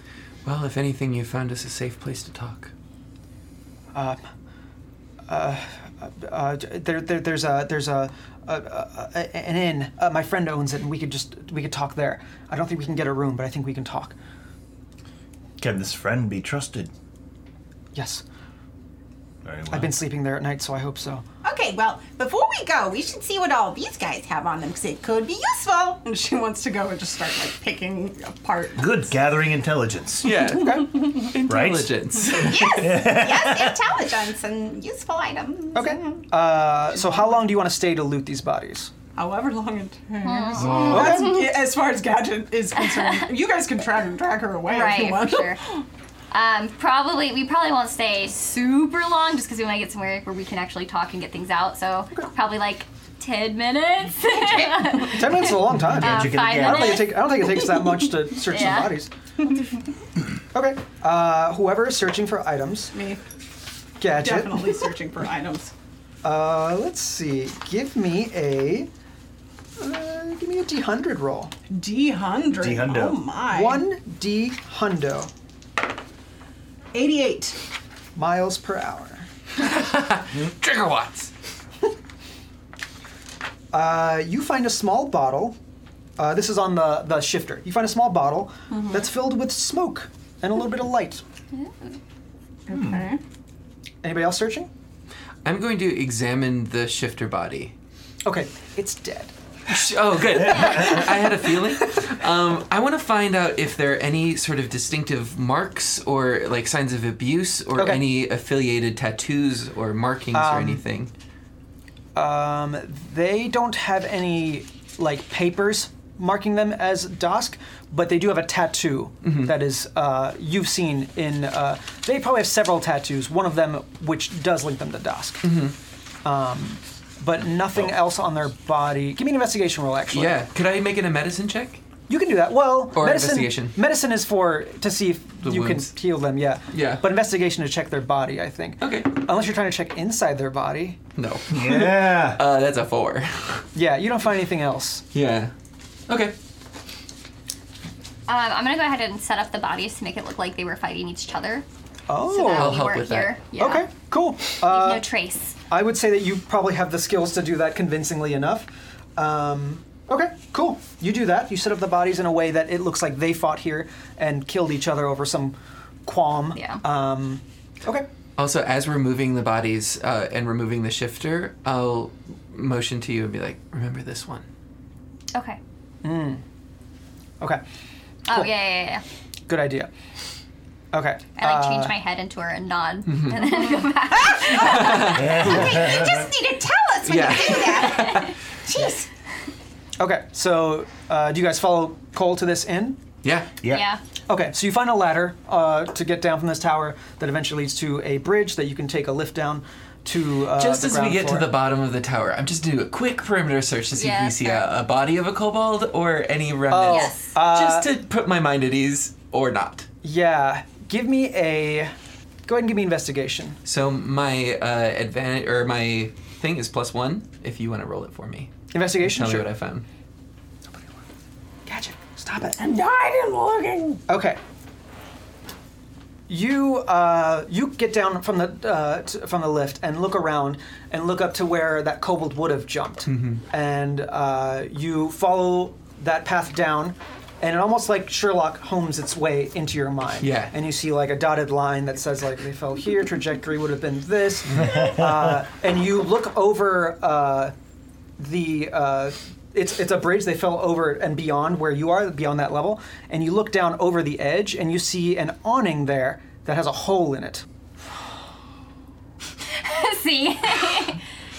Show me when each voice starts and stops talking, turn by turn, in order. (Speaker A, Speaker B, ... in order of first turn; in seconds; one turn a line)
Speaker A: 0.5-2.7
Speaker B: 3.9-4.2
Speaker B: 5.3-14.2
Speaker C: 15.6-16.9
Speaker B: 17.9-18.2
Speaker C: 19.4-19.9
Speaker B: 19.7-21.2
Speaker D: 21.4-26.0
Speaker E: 26.0-29.0
Speaker C: 28.8-30.4
Speaker A: 30.2-32.9
Speaker B: 30.5-30.9
Speaker C: 31.4-31.9
Speaker D: 32.3-36.2
Speaker C: 32.7-33.8
Speaker B: 35.7-38.9
Speaker E: 39.1-45.6
Speaker F: 40.2-41.5
Speaker A: 40.6-41.1
Speaker B: 40.8-41.4
Speaker F: 44.7-45.6
Speaker F: 46.3-59.0
Speaker B: 54.8-59.1
Speaker C: 55.9-57.1
Speaker B: 60.5-62.9
Speaker E: 62.9-63.2
Speaker B: 64.0-64.9
Speaker E: 64.1-65.7
Speaker B: 66.2-68.9
Speaker B: 69.8-71.5
Speaker E: 71.7-73.8
Speaker C: 72.6-73.3
Speaker B: 73.5-75.3
Speaker E: 77.0-77.5
Speaker B: 78.2-79.3
Speaker A: 79.6-81.3
Speaker B: 83.7-85.6
Speaker B: 86.2-91.2
Speaker F: 91.5-92.0
Speaker E: 92.7-93.2
Speaker C: 92.7-93.0
Speaker B: 94.0-94.7
Speaker A: 95.5-97.7
Speaker B: 98.2-99.3
Speaker A: 99.7-111.1
Speaker F: 100.7-100.9
Speaker B: 107.8-108.0
Speaker B: 110.3-110.8
Speaker B: 112.2-125.5
Speaker A: 119.2-119.5
Speaker A: 125.4-125.8
Speaker B: 126.2-130.4
Speaker A: 130.1-131.8
Speaker B: 132.1-141.0
Speaker A: 132.9-133.8
Speaker A: 135.4-135.9
Speaker A: 136.7-137.1
Speaker A: 138.8-139.2
Speaker A: 141.2-143.7
Speaker C: 141.5-142.4
Speaker B: 143.8-145.1
Speaker A: 145.1-145.5
Speaker A: 146.1-146.3
Speaker F: 148.3-151.7
Speaker B: 152.1-152.8
Speaker F: 152.2-153.9
Speaker A: 152.5-153.4
Speaker B: 153.6-155.1
Speaker F: 154.5-155.6
Speaker B: 155.7-168.1
Speaker F: 166.6-166.8
Speaker A: 168.4-174.4
Speaker F: 175.3-175.6
Speaker B: 176.0-176.4
Speaker F: 178.3-179.0
Speaker B: 179.5-179.9
Speaker B: 180.9-181.9
Speaker F: 181.4-185.2
Speaker A: 183.1-183.4
Speaker D: 184.4-189.1
Speaker A: 184.5-185.7
Speaker C: 185.0-186.3
Speaker A: 187.1-188.3
Speaker B: 190.0-193.0
Speaker A: 193.2-193.5
Speaker C: 193.6-193.9
Speaker F: 193.7-194.0
Speaker B: 194.3-201.5
Speaker A: 200.6-209.9
Speaker F: 203.9-204.7
Speaker B: 206.7-207.9
Speaker F: 206.8-207.3
Speaker B: 210.0-211.9
Speaker B: 212.5-213.6
Speaker A: 213.7-219.9
Speaker B: 218.7-219.5
Speaker B: 221.7-222.6
Speaker E: 222.6-224.0
Speaker B: 224.1-224.4
Speaker B: 226.3-247.6
Speaker A: 233.1-233.4
Speaker A: 240.2-240.6
Speaker B: 248.2-257.5
Speaker F: 259.5-261.0